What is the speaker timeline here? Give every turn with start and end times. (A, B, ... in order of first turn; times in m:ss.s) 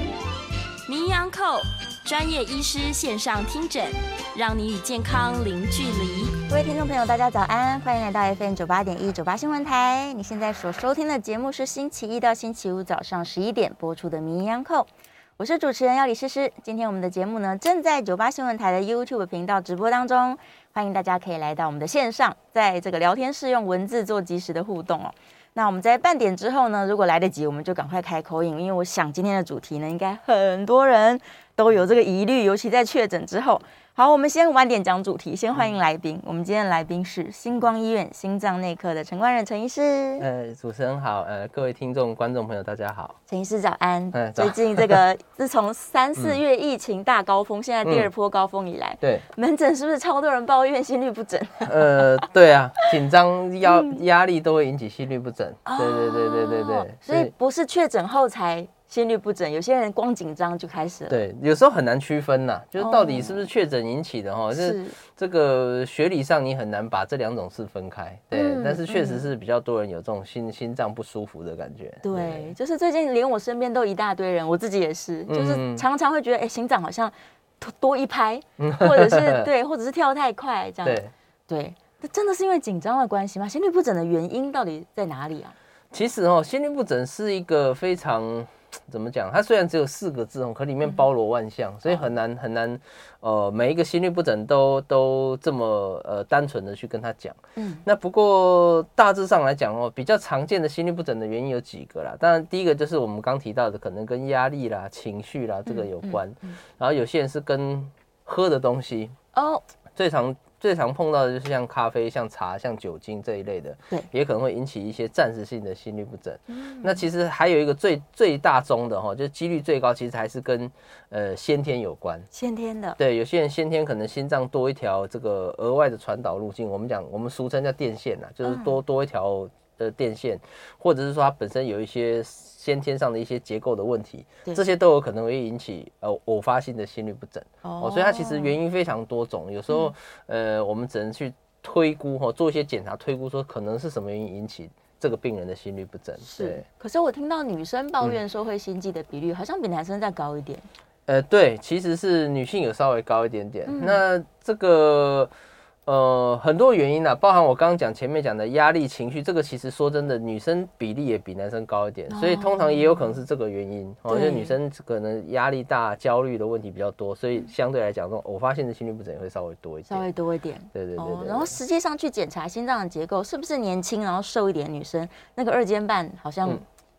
0:00.9-0:06.4 A
0:06.5-0:40.2 B
0:40.2-0:43.2 C
0:43.3-0:52.2 B
0:44.1-0:45.0 C
0:47.8-0:48.1 C
0:49.0-0:49.2 C
0:51.6-0:57.3 C
0:53.6-0:53.9 B
0:55.6-1:01.2 B
1:01.1-1:12.5 C
1:02.8-1:03.4 B
1:04.5-1:05.0 B
1:08.3-1:09.3 B
1:12.0-1:25.5 B
1:15.3-1:15.8 C
1:18.6-1:19.5 C
1:20.8-1:21.1 C
1:25.9-1:49.2 C
1:37.6-1:37.8 B
1:45.7-1:46.6 B
1:49.3-1:49.6 B
1:50.0-2:02.3 C
1:56.5-1:57.0 B
2:02.3-2:03.0 B
2:03.0-2:26.6 C
2:08.4-2:08.8 B
2:17.6-2:18.5 B
2:26.2-2:30.7 B
2:31.1-2:35.3 C
2:33.6-2:34.0 B
2:35.8-2:50.1 C
2:42.1-2:43.1 B
2:44.1-2:44.5 B
2:49.9-2:56.6 B
2:50.7-2:51.6 C